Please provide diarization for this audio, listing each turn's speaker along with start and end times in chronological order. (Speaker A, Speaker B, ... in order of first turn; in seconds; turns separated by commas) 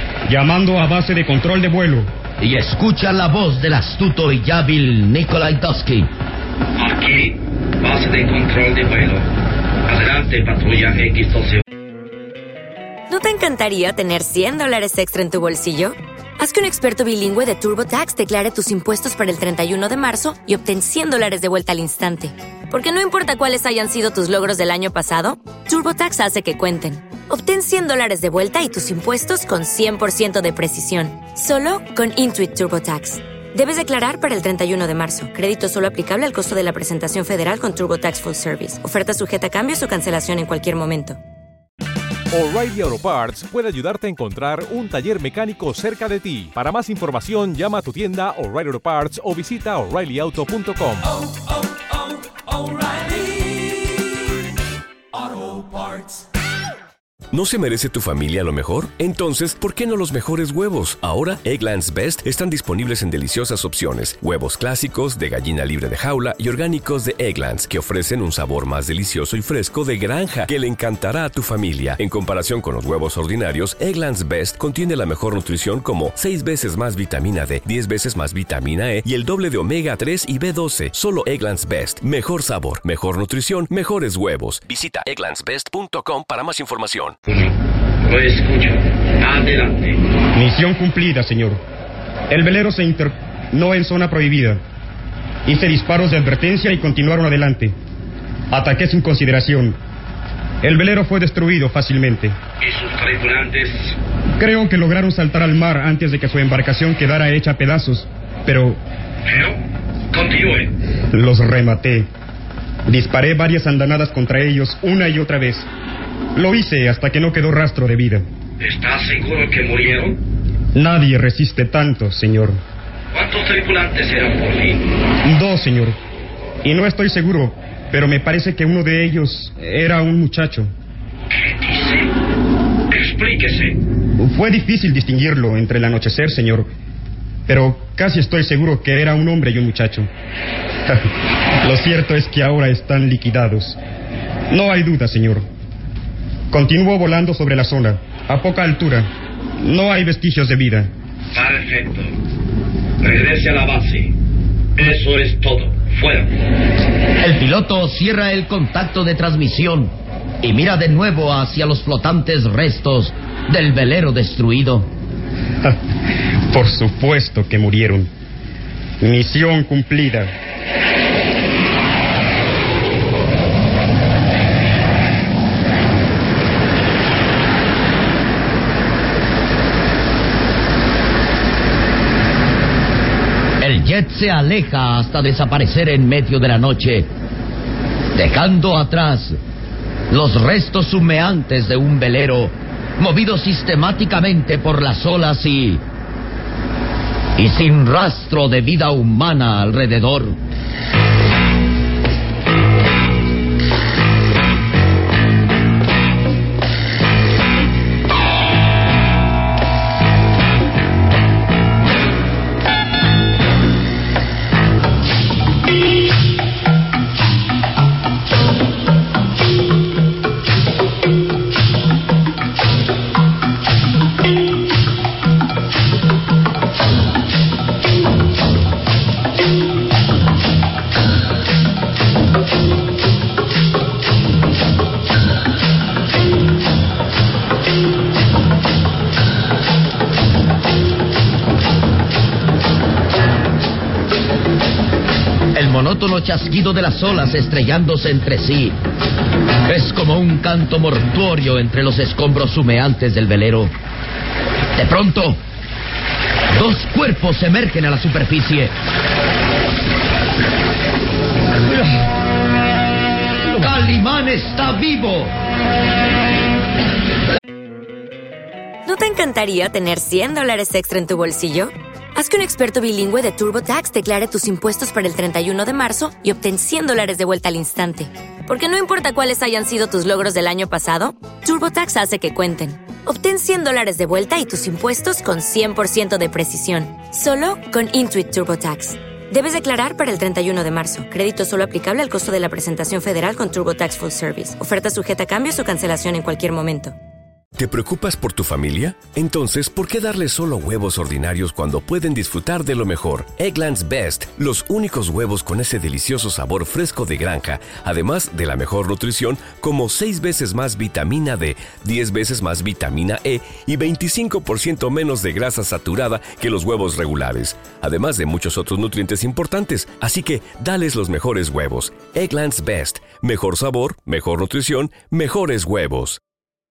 Speaker A: 0.3-2.1, Speaker B: 2.4-6.1, Speaker C: 6.8-9.2, Speaker C: 9.8-11.6, Speaker D: 13.1-41.2, Speaker E: 42.3-51.3, Speaker F: 57.3-87.2, Speaker C: 87.3-90.0, Speaker A: 90.3-91.6, Speaker A: 92.3-94.6, Speaker A: 95.5-97.8, Speaker A: 98.5-99.8, Speaker A: 100.6-102.3, Speaker C: 102.6-104.0, Speaker A: 104.4-108.8, Speaker C: 109.2-109.6, Speaker C: 110.1-110.7, Speaker A: 111.1-112.1, Speaker A: 112.9-115.7, Speaker A: 116.3-118.3, Speaker C: 118.6-120.2, Speaker A: 120.7-122.6, Speaker C: 123.1-124.9, Speaker A: 125.2-126.0, Speaker A: 126.6-130.7, Speaker C: 131.3-132.1, Speaker C: 132.9-133.8, Speaker A: 134.2-136.7, Speaker A: 137.5-140.1, Speaker A: 140.8-141.1, Speaker A: 141.6-143.8, Speaker A: 144.5-145.5, Speaker A: 146.5-150.9, Speaker C: 151.3-152.1, Speaker C: 153.0-154.1, Speaker C: 154.8-156.3, Speaker B: 157.2-164.9, Speaker A: 166.5-168.1, Speaker A: 169.0-170.3, Speaker B: 183.6-187.1, Speaker B: 188.1-189.4, Speaker B: 190.1-195.8, Speaker B: 197.4-200.3, Speaker B: 245.5-248.8, Speaker B: 249.7-253.7, Speaker B: 254.7-255.4, Speaker B: 256.5-258.7, Speaker B: 263.5-265.3, Speaker D: 268.9-296.9, Speaker F: 297.6-326.2